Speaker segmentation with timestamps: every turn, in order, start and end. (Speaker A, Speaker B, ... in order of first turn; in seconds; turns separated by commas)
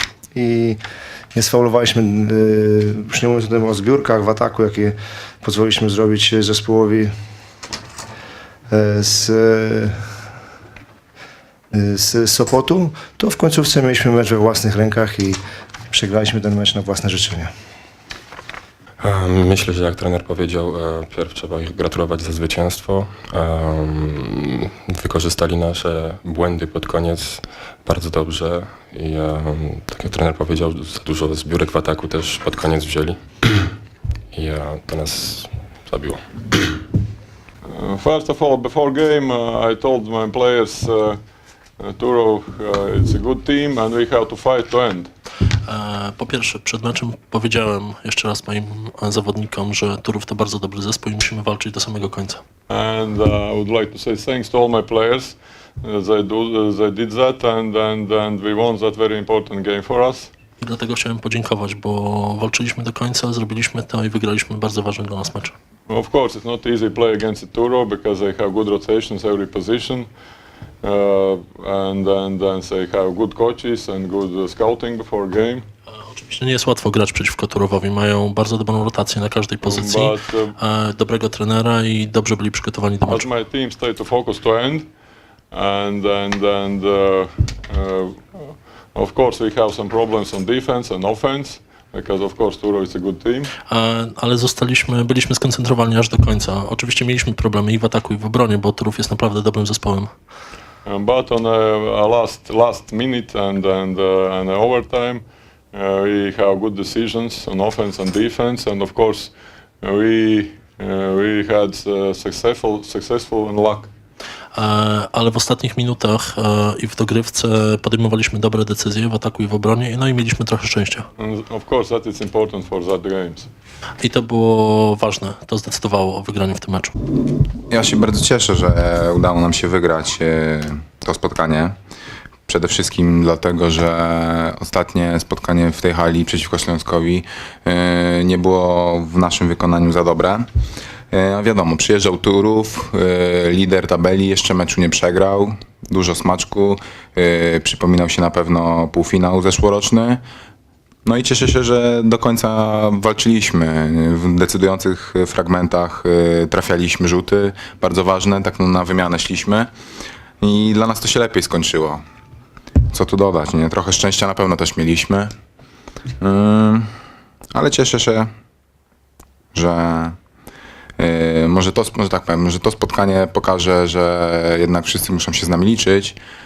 Speaker A: 0.3-0.8, Speaker A: 1.3-7.1, Speaker A: 8.7-10.0, Speaker A: 11.7-15.4, Speaker A: 15.9-17.5, Speaker B: 19.0-33.7, Speaker B: 34.3-36.8, Speaker C: 37.8-41.2, Speaker C: 41.8-45.1, Speaker D: 45.7-52.4, Speaker C: 52.7-60.3, Speaker D: 60.6-65.5, Speaker C: 65.9-70.1, Speaker C: 70.8-75.6, Speaker D: 76.1-83.4, Speaker C: 79.8-80.2, Speaker C: 83.2-84.8, Speaker C: 85.5-93.4, Speaker D: 93.7-100.1, Speaker C: 100.9-109.3, Speaker C: 109.8-113.9, Speaker D: 114.5-121.0, Speaker C: 121.2-123.5, Speaker D: 124.0-126.9, Speaker E: 127.7-131.8, Speaker E: 132.5-140.5, Speaker E: 141.1-150.2, Speaker E: 151.1-159.7, Speaker E: 160.4-162.0, Speaker E: 162.9-165.3, Speaker E: 166.2-166.9, Speaker E: 167.5-168.3, Speaker E: 169.5-170.2, Speaker E: 171.0-176.2